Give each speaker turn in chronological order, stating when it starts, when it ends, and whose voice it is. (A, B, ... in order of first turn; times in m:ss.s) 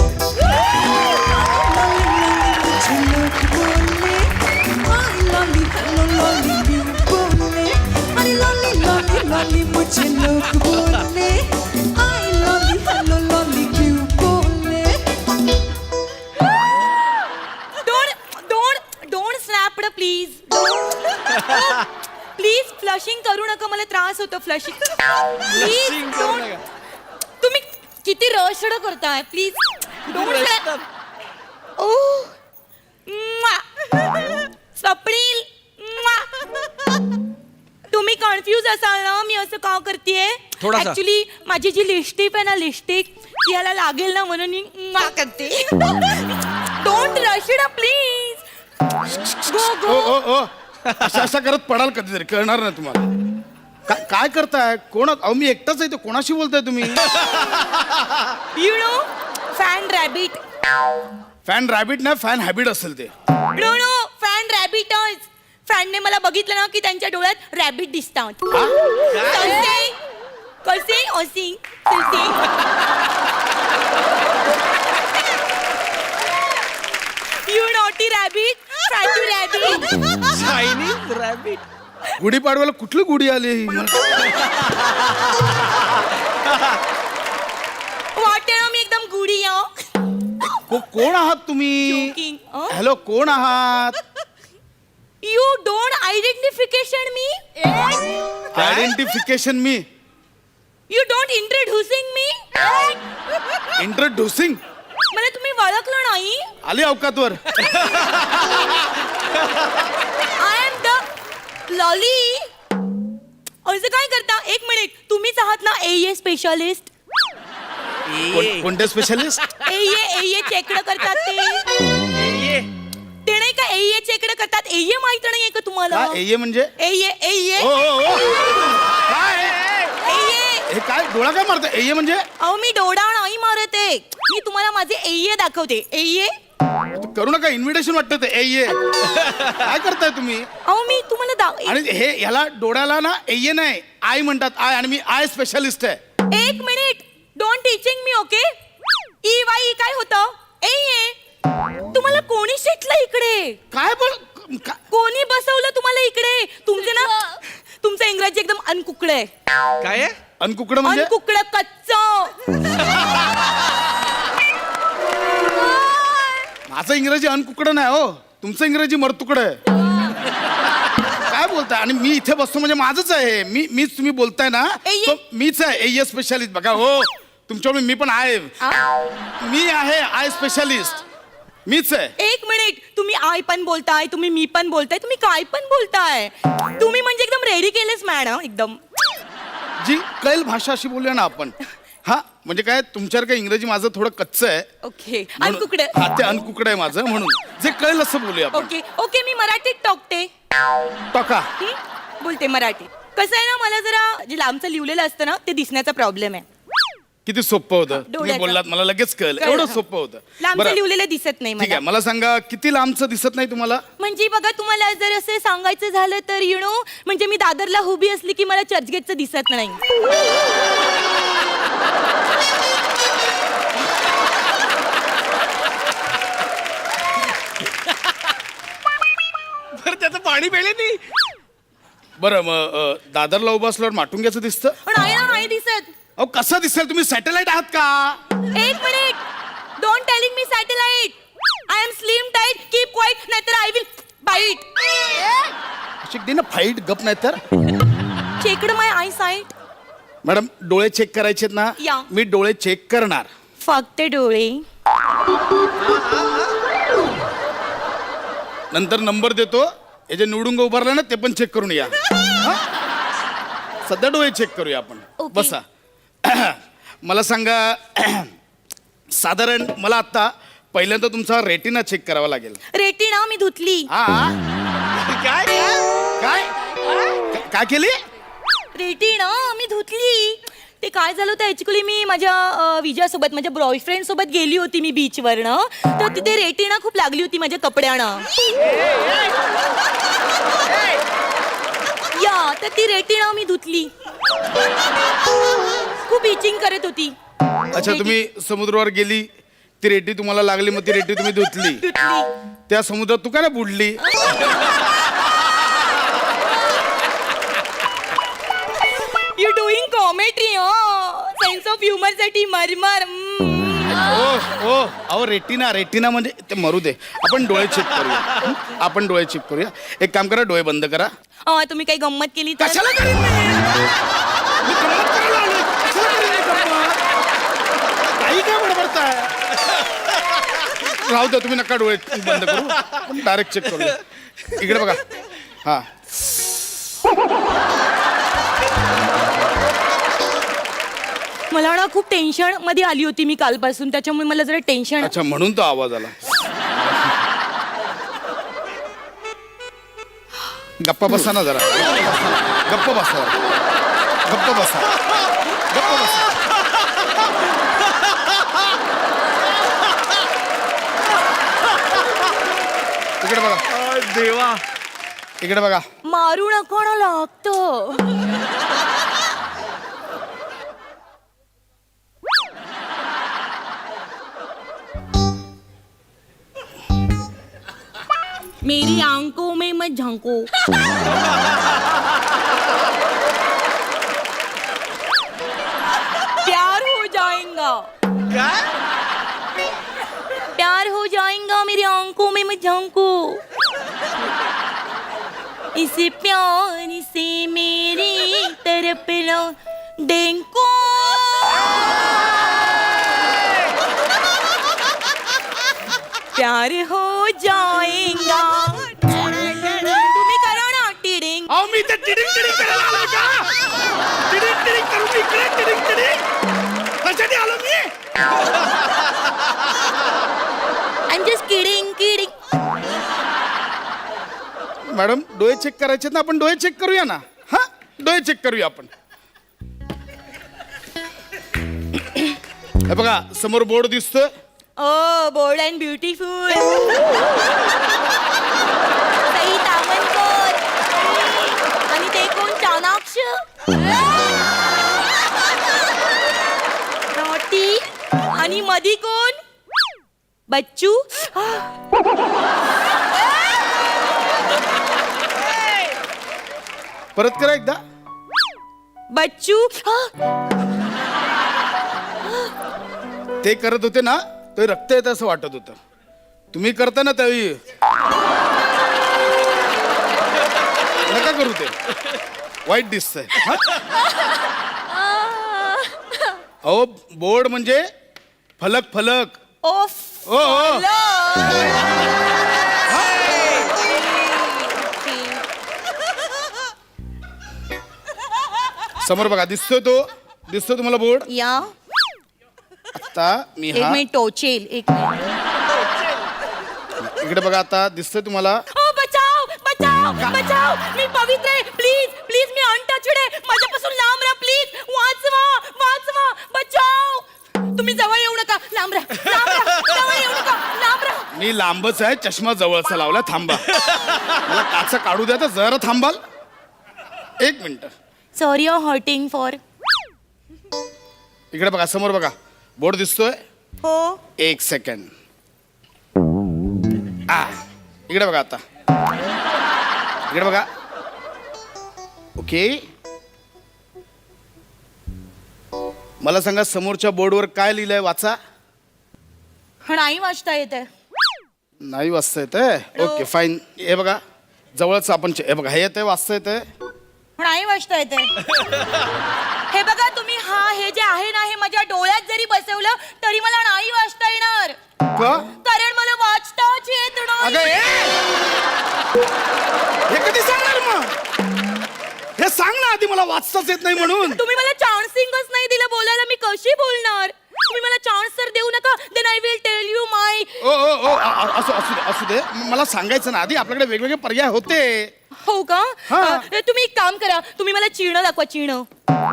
0:01.3-0:04.3 A
0:02.9-0:03.7 B
0:04.9-0:11.4 A
0:06.1-0:07.5 B
0:08.0-0:08.4 B
0:09.4-0:11.0 B
0:12.0-0:15.0 A
0:12.3-0:13.9 B
0:17.8-0:26.5 A
0:25.5-0:26.6 B
0:27.4-0:30.7 A
0:30.1-0:30.8 B
0:31.8-0:32.3 A
0:33.1-0:36.3 A
0:37.9-0:48.4 A
0:40.6-0:41.0 B
0:49.0-0:50.2 A
0:49.5-0:53.1 C
0:53.9-0:57.1 C
0:58.5-0:59.0 A
0:59.5-1:00.4 A
1:01.4-1:03.1 C
1:03.5-1:08.5 A
1:09.2-1:10.0 A
1:10.6-1:12.4 A
1:17.5-1:20.2 A
1:20.2-1:21.6 B
1:22.2-1:24.3 C
1:28.2-1:29.7 A
1:30.2-1:30.6 A
1:30.7-1:32.1 C
1:31.9-1:32.8 A
1:32.7-1:34.0 C
1:35.2-1:38.0 A
1:38.5-1:39.8 C
1:38.6-1:38.9 B
1:40.9-1:43.0 A
1:43.8-1:44.6 C
1:45.1-1:46.5 A
1:46.6-1:47.6 C
1:50.3-1:51.0 A
1:51.7-1:52.5 A
1:53.7-1:56.9 A
1:58.1-1:58.7 B
1:58.3-1:59.5 C
1:59.6-2:01.7 A
2:02.2-2:02.7 B
2:03.2-2:06.2 A
2:05.9-2:06.7 C
2:06.8-2:07.7 A
2:07.6-2:09.9 C
2:09.9-2:10.7 A
2:10.7-2:12.2 C
2:12.4-2:16.3 A
2:16.9-2:18.8 C
2:19.4-2:20.5 C
2:20.6-2:21.8 A
2:21.7-2:26.0 C
2:26.3-2:28.5 A
2:29.2-2:31.2 A
2:31.9-2:33.6 A
2:33.7-2:34.8 C
2:34.9-2:39.3 A
2:39.8-2:40.2 B
2:40.4-2:41.1 C
2:40.8-2:42.4 A
2:45.6-2:46.4 A
2:46.7-2:49.6 C
2:51.1-2:58.5 C
2:54.8-2:55.2 A
2:58.6-2:58.9 A
2:59.4-3:01.0 C
3:01.7-3:02.1 C
3:02.2-3:08.8 A
3:09.8-3:14.7 C
3:14.8-3:16.0 A
3:15.4-3:18.7 C
3:18.5-3:20.3 A
3:21.1-3:21.5 C
3:21.6-3:26.4 A
3:27.2-3:30.8 C
3:27.9-3:28.6 A
3:29.4-3:29.8 A
3:30.4-3:31.8 A
3:31.6-3:33.8 C
3:34.0-3:39.8 A
3:49.7-3:51.1 B
3:52.2-3:54.8 C
3:54.9-3:55.9 A
3:56.2-3:58.2 C
3:58.5-3:59.2 A
3:59.8-4:01.2 A
4:01.7-4:05.5 A
4:06.0-4:07.4 C
4:08.4-4:09.6 A
4:10.2-4:13.3 C
4:11.8-4:12.1 A
4:13.6-4:14.6 A
4:18.7-4:22.6 C
4:23.9-4:25.6 C
4:25.2-4:25.6 A
4:26.2-4:28.3 C
4:29.2-4:32.6 C
4:32.7-4:33.9 A
4:33.9-4:34.4 C
4:34.9-4:35.8 B
4:36.2-4:36.5 C
4:37.3-4:38.0 C
4:38.7-4:48.3 A
4:52.1-4:53.9 A
4:56.0-4:57.2 A
4:57.7-4:59.3 C
4:57.8-4:58.2 A
4:59.8-5:01.8 C
5:01.7-5:02.3 A
5:02.7-5:04.0 C
5:04.0-5:04.8 A
5:09.1-5:14.4 A
5:13.9-5:21.1 C
5:18.5-5:18.8 A
5:21.5-5:22.9 A
5:22.6-5:23.9 C
5:24.6-5:27.0 C
5:28.0-5:29.3 C
5:30.7-5:34.0 C
5:34.5-5:35.0 C
5:41.5-5:45.1 A
5:45.0-5:47.2 C
5:50.8-5:53.4 C
5:54.2-5:55.0 C
5:55.7-5:56.3 C
6:03.2-6:03.6 C
6:03.7-6:04.6 B
6:05.4-6:05.8 C
6:06.0-6:08.1 A
6:18.6-6:21.0 A
6:26.3-6:27.9 A
6:30.5-6:33.4 A
6:35.8-6:42.1 A
6:46.3-6:51.5 A
6:51.5-6:53.7 C
6:54.3-6:56.2 C
6:57.0-6:57.9 C
7:01.1-7:02.3 A
7:04.9-7:08.9 C
7:12.8-7:14.3 C
7:14.8-7:17.1 A
7:19.3-7:23.9 A
7:27.2-7:29.4 A
7:30.5-7:31.7 A
7:37.2-7:37.8 C
7:39.1-7:40.1 A
7:42.2-7:42.5 A
7:43.4-7:45.8 C
7:46.5-7:47.6 C
7:51.0-7:51.8 C
7:52.7-7:53.8 C
7:53.5-7:56.4 A
7:56.6-7:57.8 C
7:58.6-7:59.4 C
7:59.6-8:02.0 A
8:00.3-8:00.8 C
8:02.9-8:03.2 C
8:03.4-8:05.4 A
8:09.0-8:11.3 C
8:11.3-8:11.7 A
8:13.0-8:14.0 C
8:13.7-8:15.2 A
8:17.0-8:18.6 C
8:18.7-8:31.3 A
8:31.3-8:33.8 C
8:34.3-8:36.2 C
8:37.4-8:37.9 C
8:38.4-8:39.6 A
8:41.5-8:43.4 C
8:43.8-8:44.2 A
8:44.4-8:45.1 C
8:47.3-8:47.5 C
8:48.1-8:48.6 C
8:50.3-8:50.7 C
8:52.4-8:52.8 C
8:56.2-8:58.4 C
8:59.8-9:00.9 A
9:01.8-9:04.2 C
9:03.0-9:03.3 A
9:04.8-9:06.6 C
9:07.4-9:08.5 A
9:09.7-9:14.8 A
9:15.1-9:15.5 C
9:15.6-9:17.8 A
9:17.4-9:18.2 C
9:20.1-9:21.1 C
9:22.4-9:24.4 C
9:24.0-9:30.6 A
9:30.6-9:35.1 C
9:35.4-9:38.9 A
9:36.1-9:36.5 C